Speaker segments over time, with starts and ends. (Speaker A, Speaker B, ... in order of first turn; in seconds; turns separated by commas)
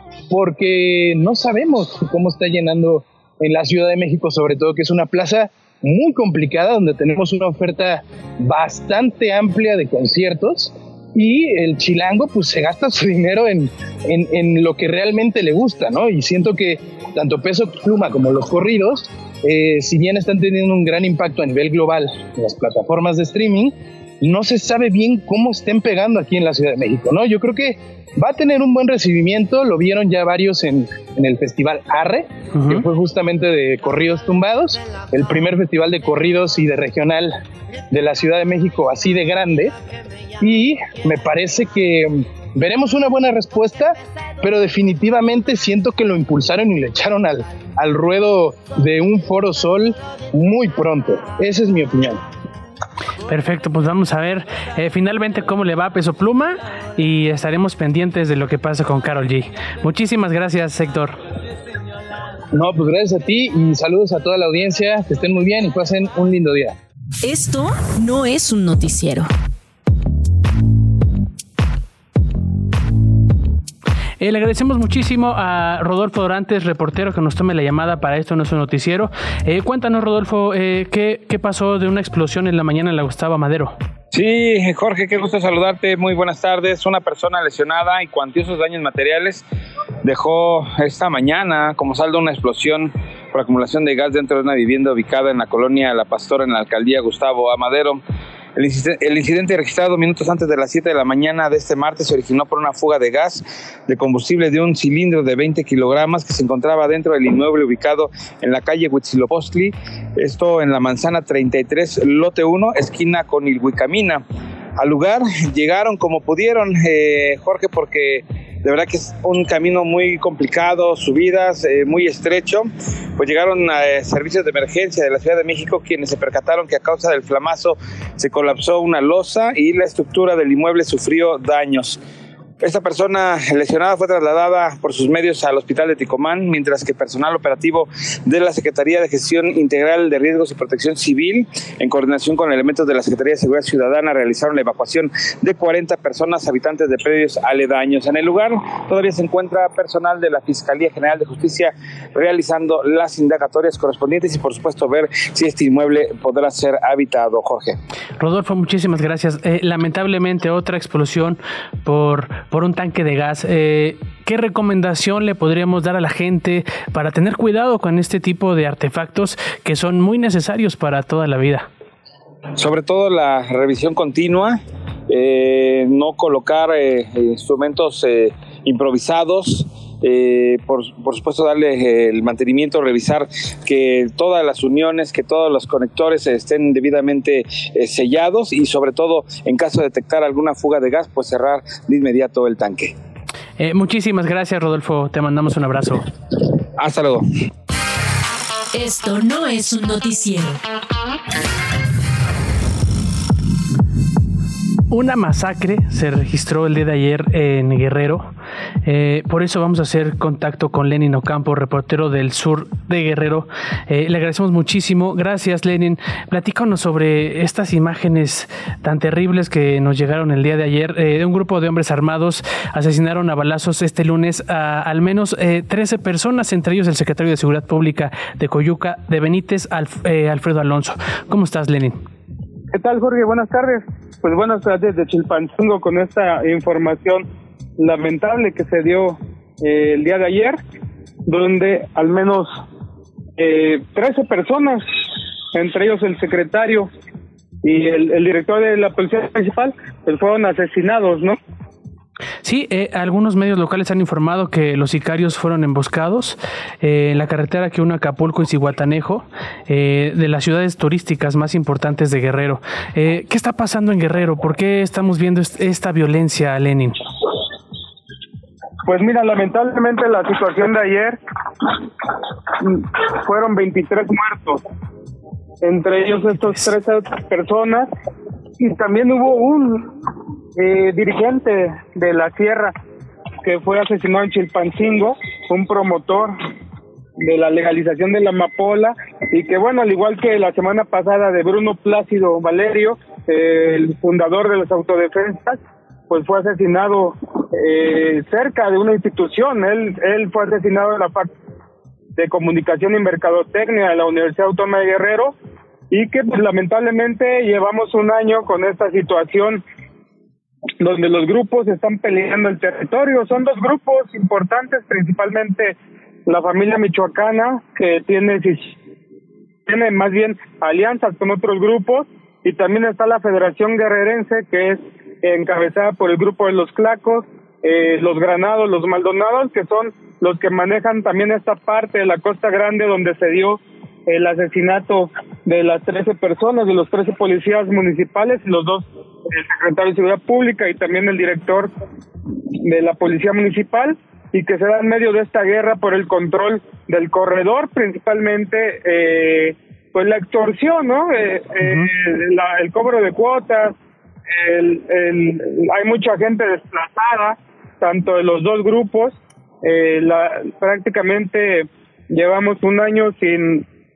Speaker A: 0.3-37.3, Speaker B: 32.5-32.8, Speaker A: 37.9-39.7, Speaker A: 40.4-52.2, Speaker B: 53.3-61.2, Speaker A: 62.5-66.8, Speaker C: 67.2-69.3, Speaker B: 74.2-83.7, Speaker D: 84.1-89.4, Speaker D: 90.0-98.0, Speaker D: 98.5-114.2, Speaker D: 114.8-132.0, Speaker D: 132.6-157.8, Speaker B: 158.2-171.7, Speaker D: 172.6-192.9, Speaker B: 193.6-196.1, Speaker D: 196.8-197.2, Speaker C: 198.7-200.6, Speaker B: 204.9-208.3, Speaker B: 208.8-232.0, Speaker E: 232.7-237.3, Speaker E: 237.8-240.6, Speaker E: 241.2-242.6, Speaker E: 243.4-244.8, Speaker E: 245.5-246.9, Speaker E: 247.6-251.4, Speaker B: 252.4-267.1, Speaker E: 268.8-271.2, Speaker E: 272.6-274.6, Speaker E: 275.6-277.9, Speaker E: 278.6-279.9, Speaker E: 280.6-282.7, Speaker E: 283.4-286.4, Speaker E: 287.2-301.3, Speaker E: 302.2-305.3, Speaker E: 305.9-309.6, Speaker E: 310.8-318.8, Speaker E: 319.6-341.7, Speaker E: 342.5-353.8, Speaker E: 354.3-363.6